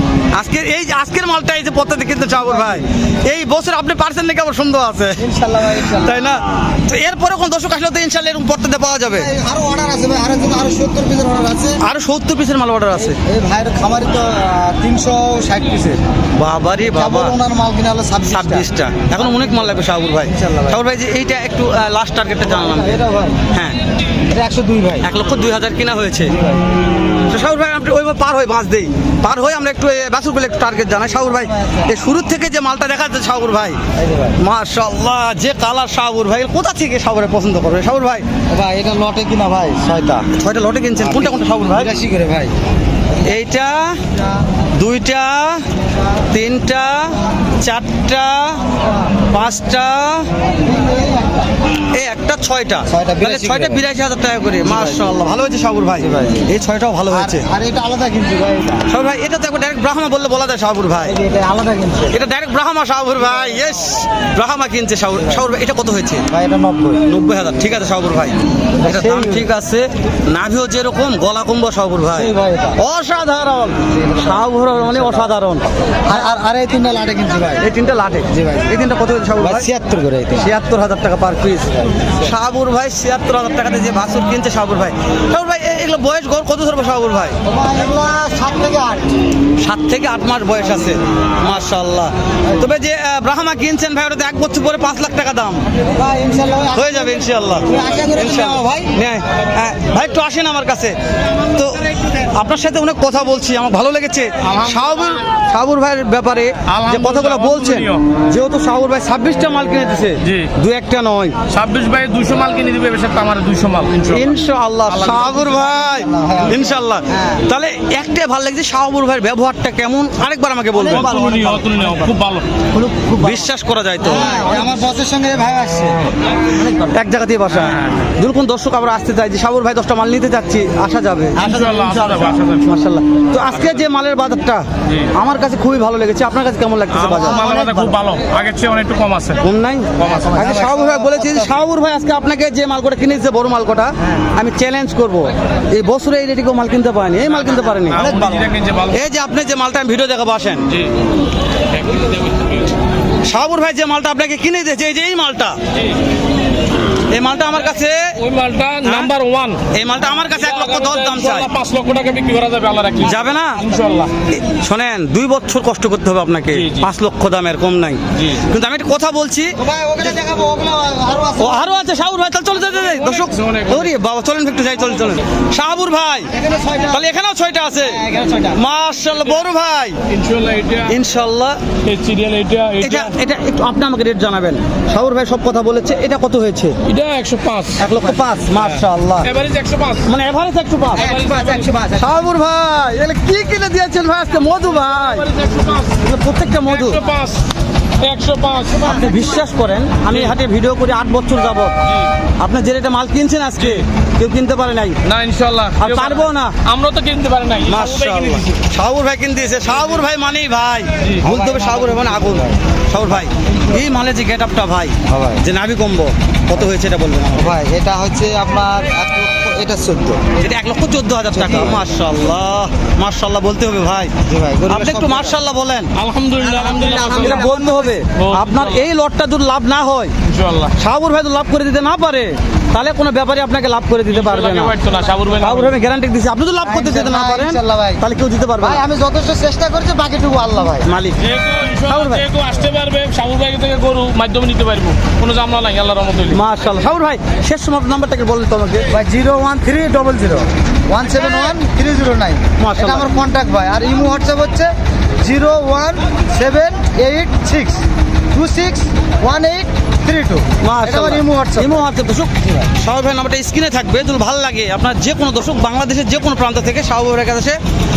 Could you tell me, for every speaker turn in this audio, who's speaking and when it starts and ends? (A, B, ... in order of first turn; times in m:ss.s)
0:00.3-0:05.2 A
0:02.4-0:02.8 B
0:05.2-0:06.3 B
0:05.8-0:09.3 A
0:09.1-0:11.8 B
0:11.8-0:13.2 A
0:13.0-0:16.0 B
0:16.3-0:17.4 A
0:16.9-0:18.7 B
0:18.3-0:23.0 A
0:20.3-0:20.8 B
0:22.4-0:23.4 B
0:23.5-0:23.8 A
0:24.3-0:25.1 B
0:25.0-0:26.3 A
0:26.4-0:26.6 B
0:27.3-0:33.8 A
0:31.5-0:31.9 B
0:33.9-0:34.4 B
0:34.4-0:38.2 A
0:38.5-0:40.3 B
0:40.3-0:41.9 A
0:41.0-0:42.5 B
0:43.2-0:44.0 A
0:44.8-0:45.6 A
0:46.3-0:48.6 A
0:49.3-0:50.3 A
0:50.6-0:51.5 B
0:51.9-0:57.4 A
0:52.9-0:53.8 B
0:54.6-0:55.2 B
0:56.0-0:56.5 B
0:57.1-0:58.9 B
0:58.9-1:01.2 A
1:01.0-1:02.1 B
1:02.1-1:06.2 A
1:03.2-1:04.0 B
1:06.3-1:07.0 B
1:07.0-1:16.2 A
1:08.8-1:09.5 B
1:12.1-1:12.8 B
1:13.9-1:15.3 B
1:16.0-1:17.6 B
1:17.6-1:19.7 A
1:18.3-1:18.7 B
1:19.4-1:20.5 B
1:20.4-1:27.4 A
1:27.4-1:29.2 B
1:29.6-1:35.6 A
1:35.9-1:38.9 B
1:36.7-1:40.9 A
1:41.5-1:51.3 A
1:44.4-1:45.2 C
1:46.6-1:48.0 C
1:50.2-1:50.5 C
1:51.5-1:55.7 C
1:54.1-2:01.1 A
1:55.1-1:57.5 B
2:00.8-2:02.1 B
2:00.8-2:02.4 C
2:02.7-2:03.5 B
2:03.2-2:04.6 A
2:04.0-2:06.9 B
2:06.9-2:11.5 A
2:07.7-2:08.0 C
2:11.4-2:12.4 B
2:11.4-2:12.7 C
2:12.6-2:17.5 A
2:14.8-2:15.1 C
2:16.9-2:19.4 C
2:17.2-2:18.0 B
2:19.4-2:30.7 A
2:20.0-2:20.4 C
2:20.0-2:21.6 B
2:27.3-2:29.1 C
2:28.0-2:28.4 B
2:30.7-2:31.0 C
2:31.7-2:32.8 C
2:33.2-2:35.6 A
2:37.1-2:38.2 A
2:38.2-2:44.1 C
2:38.8-2:39.1 A
2:39.7-2:41.5 A
2:43.0-2:43.6 A
2:44.3-2:49.6 A
2:46.5-2:46.9 C
2:48.2-2:48.4 C
2:49.6-2:51.7 B
2:51.4-2:56.3 A
2:52.6-2:53.9 C
2:56.3-2:57.0 B
2:56.9-2:58.0 A
2:57.8-2:58.6 B
2:58.5-3:00.0 A
3:00.1-3:00.9 C
3:00.9-3:01.6 A
3:01.8-3:03.1 C
3:02.8-3:06.8 A
3:06.8-3:07.8 C
3:07.8-3:09.3 A
3:08.5-3:10.1 C
3:10.0-3:11.1 A
3:10.9-3:11.7 C
3:10.9-3:12.3 B
3:12.0-3:15.3 A
3:15.0-3:16.0 C
3:15.9-3:17.0 A
3:16.6-3:17.4 C
3:18.0-3:19.1 C
3:18.8-3:21.8 A
3:20.1-3:20.3 C
3:22.4-3:25.0 A
3:25.0-3:28.6 C
3:25.8-3:26.6 A
3:27.6-3:37.6 A
3:31.2-3:32.6 B
3:35.0-3:35.4 B
3:37.3-3:40.2 B
3:40.4-3:44.1 A
3:41.3-3:41.9 B
3:44.2-3:45.4 B
3:44.7-3:45.9 A
3:46.0-3:47.5 C
3:46.4-3:48.0 B
3:47.0-3:50.1 A
3:48.1-3:48.8 C
3:50.2-3:50.7 C
3:50.8-3:54.8 A
3:54.1-3:55.7 C
3:55.4-3:58.8 A
3:56.6-3:58.0 B
3:58.6-4:00.9 B
4:00.8-4:01.2 A
4:01.2-4:06.4 C
4:01.9-4:02.2 A
4:06.3-4:08.9 A
4:08.9-4:14.7 B
4:12.6-4:13.1 A
4:15.2-4:21.9 B
4:20.6-4:27.6 A